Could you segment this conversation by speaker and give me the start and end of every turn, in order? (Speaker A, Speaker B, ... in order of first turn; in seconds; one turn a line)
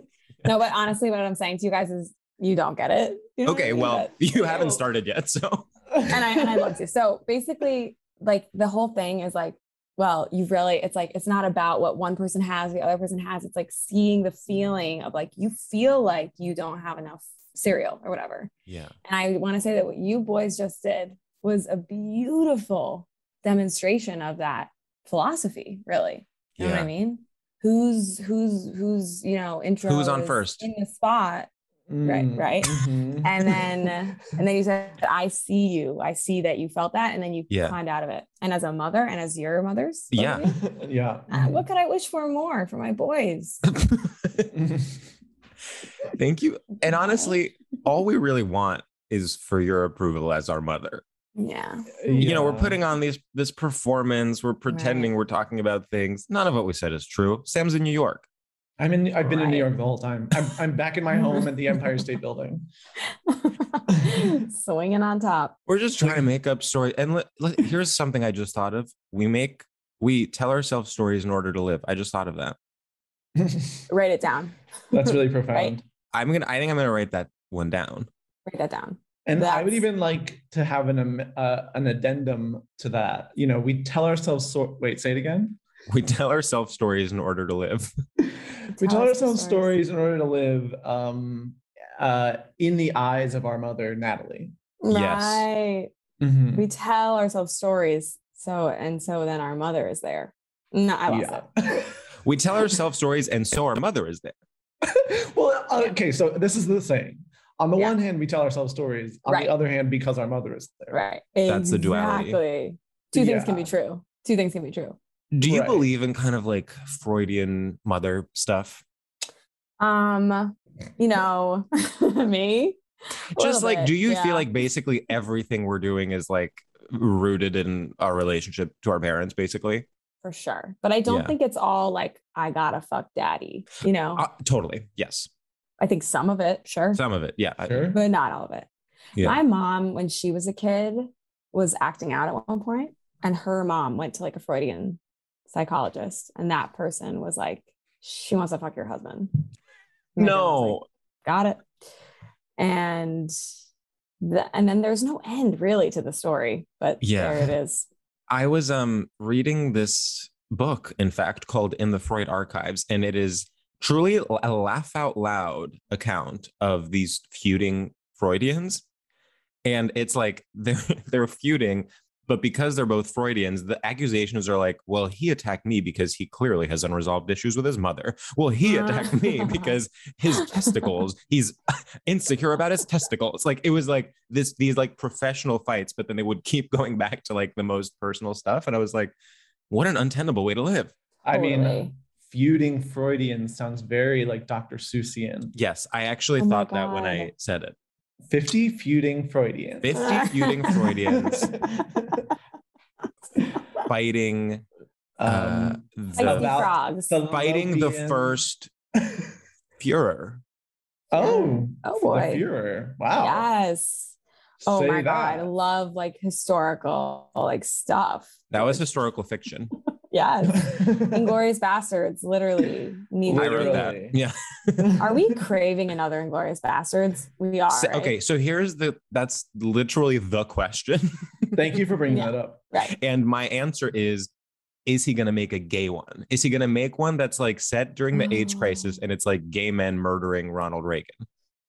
Speaker A: 0.4-4.8
Speaker B: 3.4-5.7
Speaker C: 6.0-6.7
Speaker A: 6.1-18.5
Speaker B: 18.7-18.9
Speaker A: 19.0-31.5
Speaker B: 26.6-26.9
Speaker B: 29.8-30.7
Speaker C: 31.9-33.9
Speaker A: 32.0-40.5
Speaker B: 37.5-37.8
Speaker B: 40.1-40.5
Speaker C: 40.2-41.6
Speaker A: 41.3-43.6
Speaker B: 43.7-44.5
Speaker C: 44.5-44.9
Speaker B: 46.1-51.0
Speaker A: 47.0-47.3
Speaker A: 51.4-52.2
Speaker C: 52.0-52.8
Speaker B: 52.2-58.2
Speaker A: 54.7-55.1
Speaker C: 58.8-62.6
Speaker A: 59.2-59.7
Speaker A: 63.3-65.5
Speaker B: 65.7-72.6
Speaker C: 73.4-73.8
Speaker A: 73.9-74.5
Speaker C: 74.9-75.8
Speaker A: 75.1-75.7
Speaker B: 76.1-78.1
Speaker A: 78.5-79.8
Speaker C: 79.2-85.6
Speaker B: 85.9-87.9
Speaker C: 88.2-94.5
Speaker A: 88.8-89.7
Speaker A: 94.8-95.9
Speaker B: 94.9-95.5
Speaker C: 96.2-96.7
Speaker A: 96.5-101.4
Speaker C: 101.1-102.0
Speaker B: 102.2-104.3
Speaker C: 104.8-111.0
Speaker A: 110.9-115.0
Speaker B: 111.5-112.4
Speaker C: 113.1-113.7
Speaker B: 115.3-118.8
Speaker C: 115.4-115.9
Speaker A: 119.8-122.8
Speaker A: 123.3-124.5
Speaker B: 123.3-129.8
Speaker A: 130.2-134.2
Speaker B: 131.1-131.3
Speaker B: 134.2-135.3
Speaker A: 135.8-137.0
Speaker B: 136.9-137.9
Speaker C: 137.7-138.0
Speaker A: 137.9-138.7
Speaker A: 139.2-145.0
Speaker A: 145.5-149.3
Speaker A: 150.2-151.6
Speaker B: 150.2-150.8
Speaker A: 152.6-153.3
Speaker A: 154.2-157.8
Speaker B: 157.0-157.5
Speaker B: 158.3-168.8
Speaker B: 169.6-189.1
Speaker A: 178.6-179.7
Speaker B: 189.7-190.9
Speaker C: 191.2-195.5
Speaker A: 191.3-191.9
Speaker B: 195.5-197.7
Speaker A: 196.4-197.3
Speaker C: 198.3-202.2
Speaker B: 199.8-201.5
Speaker A: 200.0-200.7
Speaker B: 203.9-204.6
Speaker C: 205.2-208.4
Speaker B: 205.2-206.6
Speaker A: 206.2-207.1
Speaker B: 207.3-208.7
Speaker C: 209.0-209.3
Speaker B: 209.8-210.4
Speaker C: 211.1-213.5
Speaker A: 211.2-212.4
Speaker A: 213.2-214.1
Speaker C: 214.6-215.5
Speaker A: 214.6-218.8
Speaker B: 218.5-219.7
Speaker A: 220.1-223.9
Speaker C: 220.5-221.3
Speaker C: 223.2-224.2
Speaker B: 223.3-225.0
Speaker C: 224.8-225.1
Speaker A: 225.0-228.1
Speaker B: 227.7-231.6
Speaker C: 231.5-232.6
Speaker A: 232.1-232.9
Speaker B: 232.9-234.3
Speaker B: 234.8-241.2
Speaker A: 238.1-238.9